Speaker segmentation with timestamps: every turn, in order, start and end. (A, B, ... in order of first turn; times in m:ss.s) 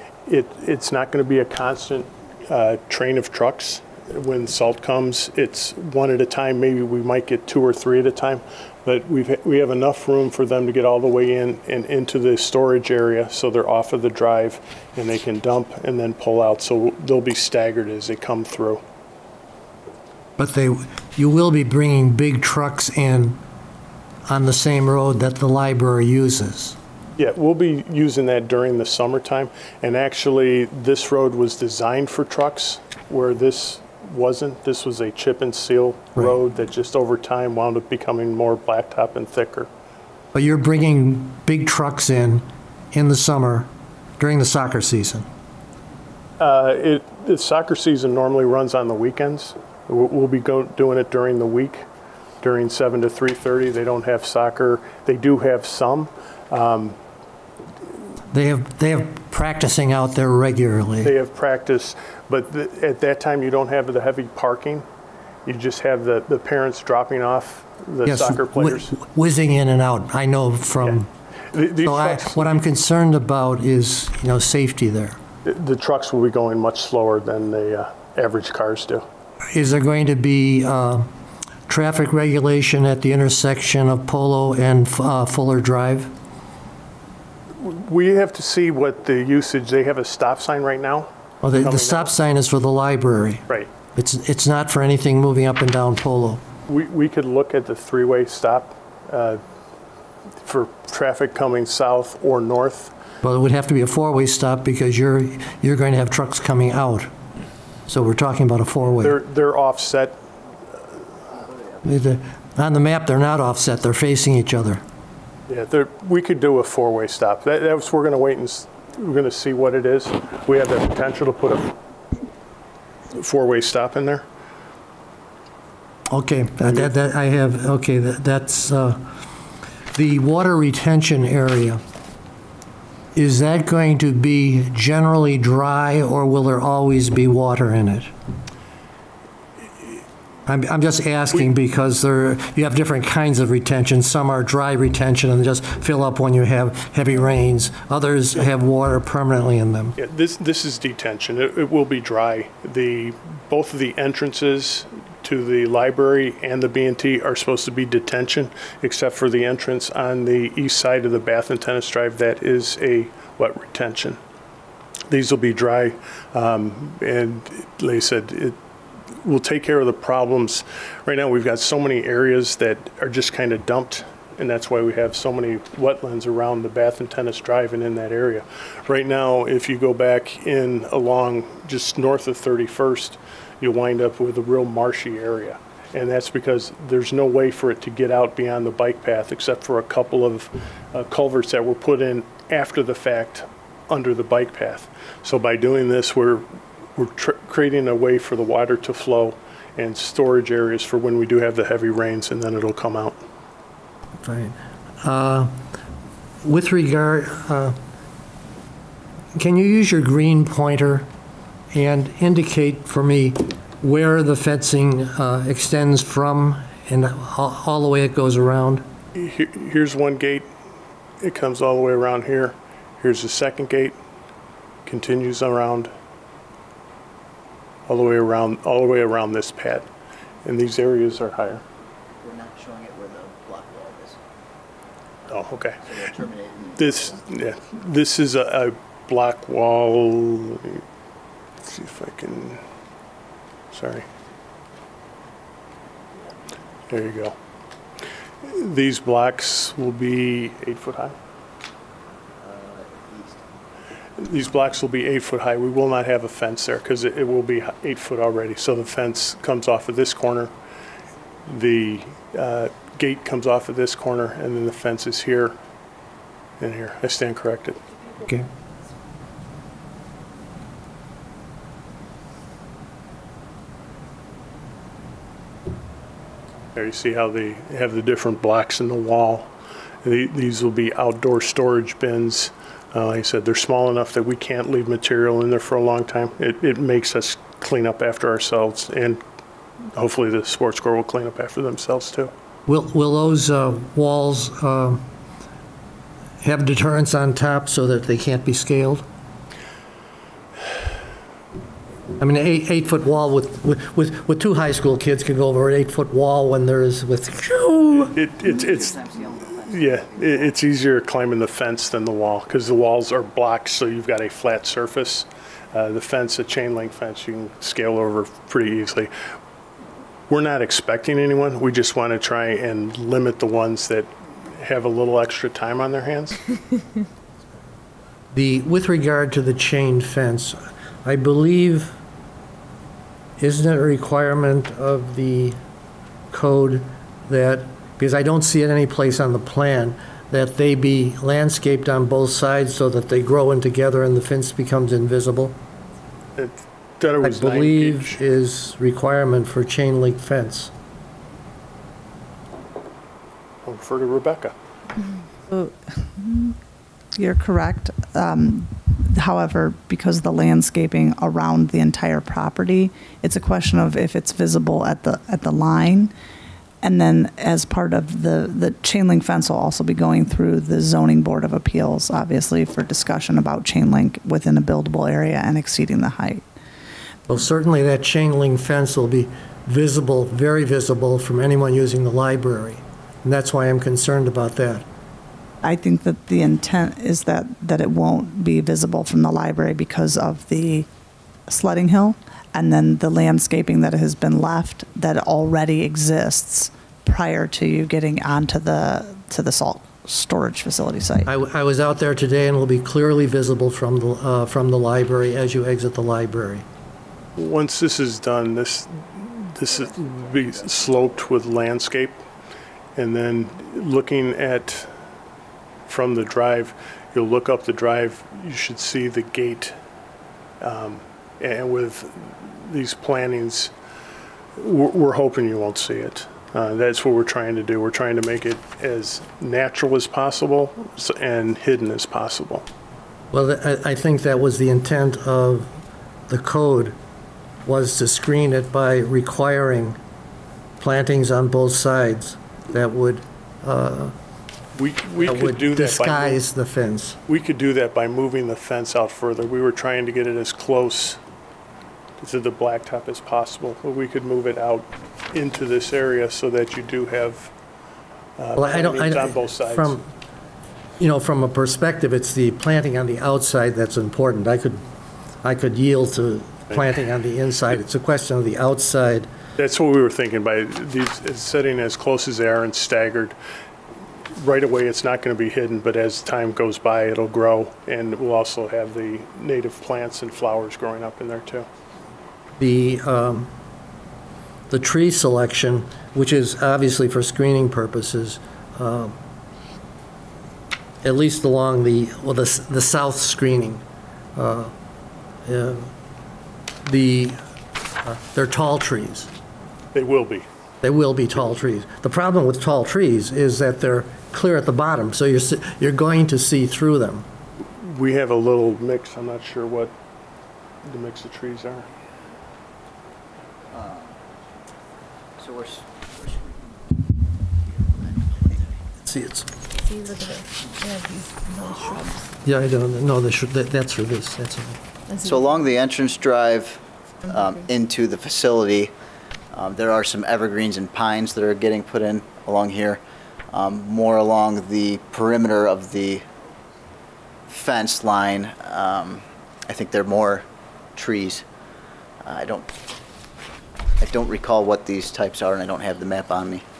0:00.3-0:18.8 A
0:20.4-0:23.4 B
0:24.2-0:26.8 B
0:27.2-0:39.7 A
0:40.3-0:45.3 B
0:46.4-0:51.8 A
0:52.4-0:57.0 A
0:58.3-1:01.1 B
1:01.0-1:04.8 A
1:05.4-1:08.9 A
1:08.0-1:11.1 B
1:11.5-1:12.6 A
1:11.8-1:15.2 B
1:15.4-1:19.0 A
1:19.5-1:21.1 B
1:21.7-1:26.1 B
1:27.6-1:32.1 A
1:31.4-1:33.4 B
1:34.0-1:36.4 B
1:36.7-1:39.4 A
1:40.4-1:42.9 A
1:43.2-1:47.1 B
1:47.9-1:49.2 B
1:49.0-1:50.2 A
1:51.8-1:54.8 B
1:55.5-2:01.8 A
2:03.1-2:04.2 A
2:06.1-2:09.0 B
2:09.9-2:11.8 B
2:13.1-2:18.1 B
2:20.4-2:29.9 B
2:30.0-2:44.2 A
2:45.1-2:48.6 A
2:49.2-3:16.4 A
3:17.0-3:23.2 A
3:24.2-3:25.5 B
3:26.4-3:27.8 B
3:29.4-3:31.1 B
3:31.7-3:38.8 B
3:39.1-3:40.5 A
3:41.2-3:44.0 A
3:44.9-3:45.9 A
3:47.9-3:49.9 A
3:50.4-3:51.6 A
3:52.2-3:54.2 C
3:55.3-3:55.8 A
3:55.8-3:57.2 C
3:56.8-4:00.8 A
4:01.6-4:02.6 A
4:03.7-4:04.1 A
4:06.9-4:07.4 A
4:08.4-4:11.1 A
4:12.4-4:13.4 C
4:14.2-4:20.5 A
4:21.5-4:25.5 A
4:26.6-4:27.8 A
4:36.7-4:39.5 A
4:40.0-4:49.2 A
4:49.9-4:52.3 A
4:52.7-4:55.0 B
4:56.4-4:59.1 B
5:02.2-5:08.2 B
5:08.1-5:09.0 A
5:08.4-5:10.6 C
5:09.6-5:19.1 A
5:20.3-5:26.4 A
5:28.3-5:32.0 B
5:33.4-5:35.6 B
5:36.3-5:45.6 B
5:46.4-5:48.2 A
5:47.2-5:50.7 B
5:53.6-5:54.5 A
5:55.5-5:56.6 D
5:57.2-6:06.1 D
6:06.8-6:16.4 D
6:17.3-6:24.8 B
6:25.6-6:30.9 D
6:31.5-6:41.3 D
6:41.2-6:46.6 B
6:47.4-6:52.2 A
6:53.0-6:54.9 A
6:55.9-6:59.7 A
7:00.6-7:03.7 A
7:04.6-7:12.6 A
7:13.3-7:15.7 B
7:16.3-7:17.0 B
7:17.6-7:20.0 B
7:20.8-7:24.1 B
7:24.8-7:26.4 A
7:25.2-7:27.2 B
7:27.3-7:31.2 A
7:32.2-7:37.5 A
7:38.4-7:40.0 A
7:38.6-7:40.1 B
7:41.0-7:44.8 B
7:45.4-7:49.3 B
7:49.6-7:53.4 A
7:54.4-8:01.7 A
8:02.6-8:03.5 B
8:04.7-8:09.1 B
8:11.0-8:13.8 B
8:14.4-8:14.7 B
8:15.4-8:15.9 B
8:16.8-8:17.4 B
8:18.0-8:19.3 B
8:19.9-8:20.5 A
8:20.8-8:27.2 B
8:27.8-8:29.9 A
8:30.8-8:31.9 A
8:33.7-8:34.1 C
8:35.4-8:36.6 C
8:37.9-8:38.3 C
8:39.0-8:39.5 B
8:39.8-8:42.2 E
8:42.4-8:44.8 B
8:45.1-8:45.4 E
8:45.2-8:48.9 C
8:49.5-8:53.0 C
8:53.5-8:56.3 C
8:57.5-9:01.4 C
9:02.2-9:02.7 C
9:04.0-9:06.6 C